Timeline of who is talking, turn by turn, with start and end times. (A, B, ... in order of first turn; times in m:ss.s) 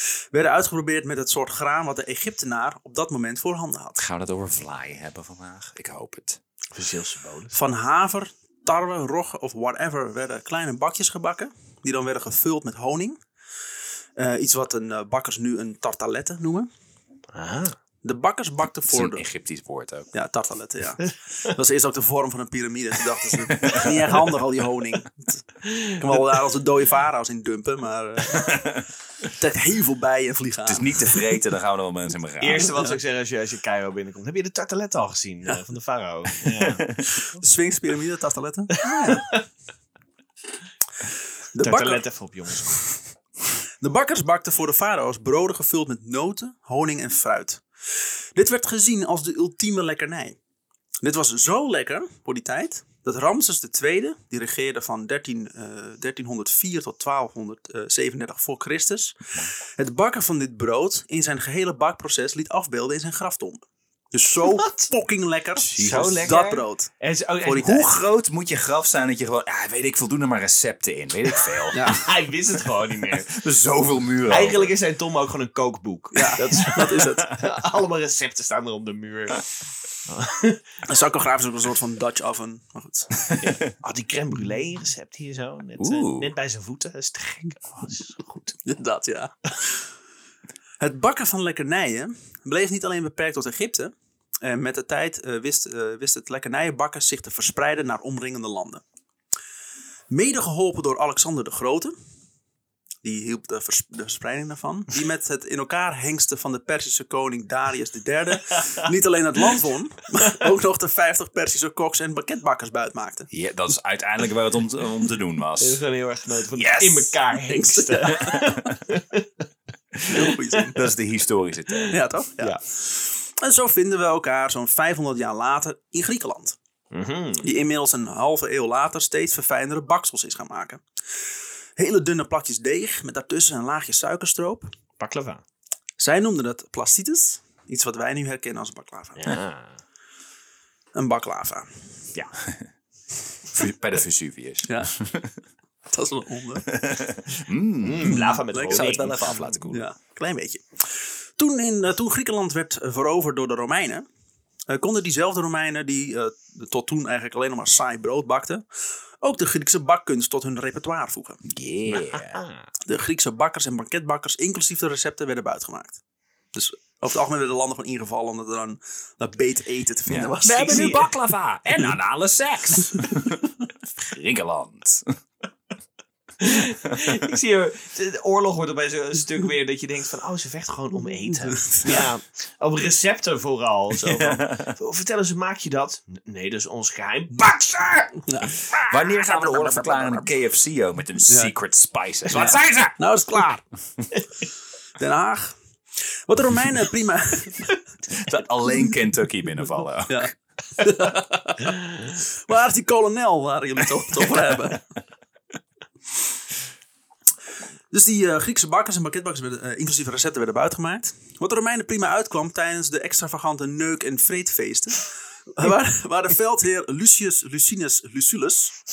0:00.3-0:04.0 A
0:04.0-0:06.4 B
0:06.7-0:07.5 C
0:07.5-0:13.2 A
0:14.2-0:16.7 A
0:17.3-0:17.8 C
0:18.0-0:19.2 A
0:18.9-0:20.1 B
0:20.1-0:28.7 A
0:23.6-0:24.2 B
0:28.4-0:28.8 B
0:29.3-0:31.2 A
0:30.6-0:32.9 B
0:32.4-0:36.9 C
0:36.5-0:37.1 B
0:37.1-0:39.4 A
0:38.7-0:39.4 C
0:41.5-0:42.0 A
0:41.6-0:42.9 C
0:43.8-0:47.6 A
0:48.3-0:50.4 A
0:51.0-0:59.2 A
0:59.7-1:03.6 A
1:04.1-1:06.9 A
1:04.5-1:04.8 C
1:05.6-1:06.6 B
1:05.8-1:06.4 C
1:07.0-1:07.9 C
1:07.4-1:07.9 A
1:07.6-1:12.1 B
1:11.7-1:12.0 A
1:11.7-1:13.4 C
1:13.0-1:14.7 B
1:14.3-1:19.4 C
1:16.1-1:17.2 A
1:20.1-1:20.6 C
1:20.8-1:23.1 A
1:23.2-1:23.7 B
1:23.4-1:28.6 C
1:25.8-1:26.3 B
1:28.6-1:29.8 A
1:30.8-1:38.8 A
1:40.1-1:41.9 A
1:43.0-1:53.3 A
1:53.3-1:55.8 B
1:55.6-1:59.3 C
1:56.5-1:57.2 B
1:57.5-1:58.6 A
2:00.1-2:00.8 A
2:00.7-2:02.0 B
2:01.7-2:02.6 C
2:01.9-2:06.6 A
2:06.9-2:07.5 C
2:07.4-2:10.8 A
2:11.8-2:14.7 A
2:15.0-2:15.4 C
2:16.0-2:19.2 A
2:19.2-2:19.8 C
2:20.9-2:21.7 A
2:22.2-2:22.7 B
2:23.5-2:25.4 B
2:24.6-2:24.9 A
2:25.9-2:26.7 A
2:26.7-2:29.8 B
2:27.8-2:29.4 C
2:28.0-2:28.8 A
2:29.7-2:34.0 A
2:34.7-2:38.6 A
2:39.2-2:41.4 A
2:41.4-2:42.4 B
2:42.0-2:42.6 C
2:42.8-2:46.0 A
2:46.5-2:51.0 A
2:50.1-2:55.0 B
2:50.7-2:51.1 C
2:56.4-3:08.2 C
3:01.7-3:02.0 A
3:04.0-3:04.7 B
3:08.2-3:10.3 A
3:08.8-3:13.0 B
3:11.3-3:11.5 A
3:12.3-3:13.6 A
3:15.0-3:15.6 A
3:16.3-3:17.7 A
3:18.1-3:20.3 B
3:20.1-3:24.8 A
3:27.9-3:38.8 A